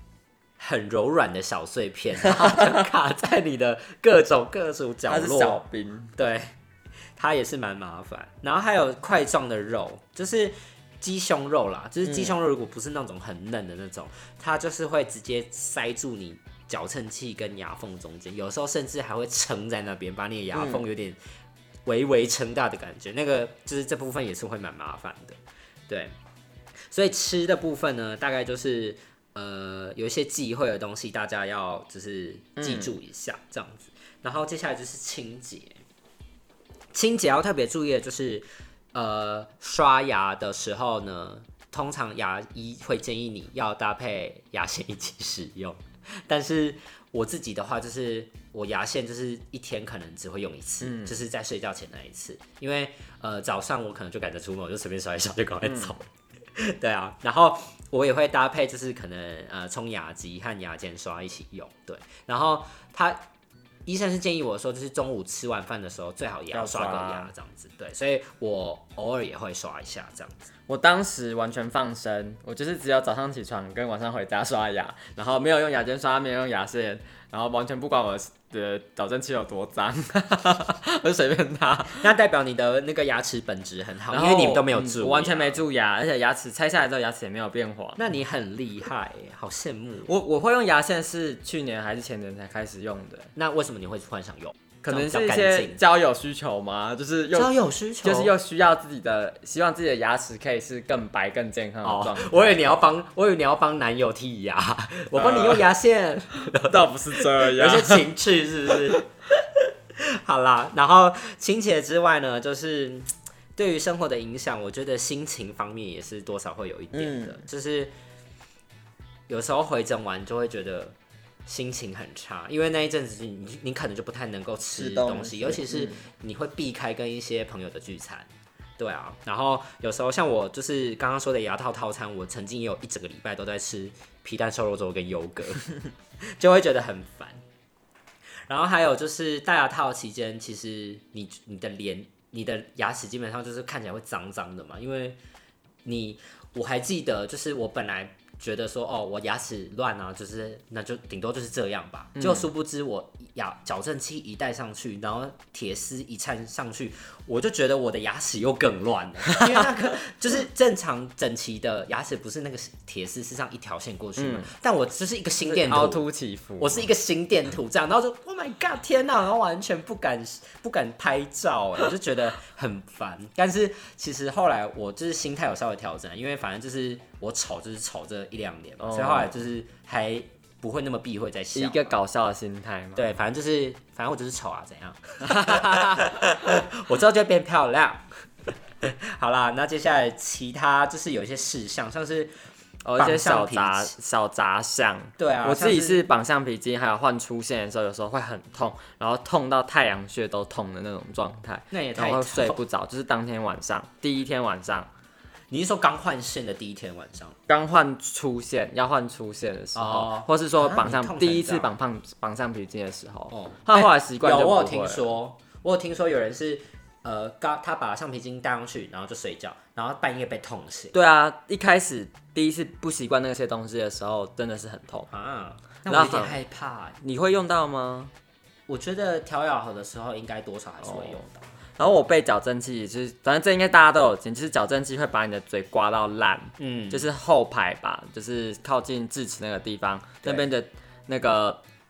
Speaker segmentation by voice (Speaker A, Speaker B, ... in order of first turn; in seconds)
Speaker A: 0.6-5.6, 6.2-6.5, 7.2-21.2, 21.9-26.1, 26.9-35.8, 36.9-63.2, 63.9-70.5, 82.0-85.6, 88.0-90.1, 93.4-95.8, 97.3-98.3, 101.8-117.9, 119.3-135.7, 136.2-137.4, 138.5-145.2, 145.8-166.1, 166.6-181.9, 183.0-192.3, 193.0-193.9, 195.2-196.0, 201.7-202.6, 205.5-207.4, 209.8-211.7, 213.3-220.9, 225.1-227.0, 228.7-231.4, 236.6-237.1
Speaker B: 2.5-2.7, 5.1-6.1, 20.5-20.8, 32.6-32.9, 50.8-51.1, 66.5-67.3, 70.7-82.1, 84.1-88.0, 90.1-93.3, 94.8-102.6, 105.2-105.7, 106.4-108.1, 116.9-117.4, 124.8-126.0, 152.2-152.4, 159.3-159.6, 164.2-164.5, 165.4-166.9, 178.8-179.3, 181.6-183.1, 185.2-186.1, 192.8-204.9, 207.5-215.0, 220.9-225.1, 225.9-226.4, 227.0-228.1, 230.8-231.2, 231.8-241.6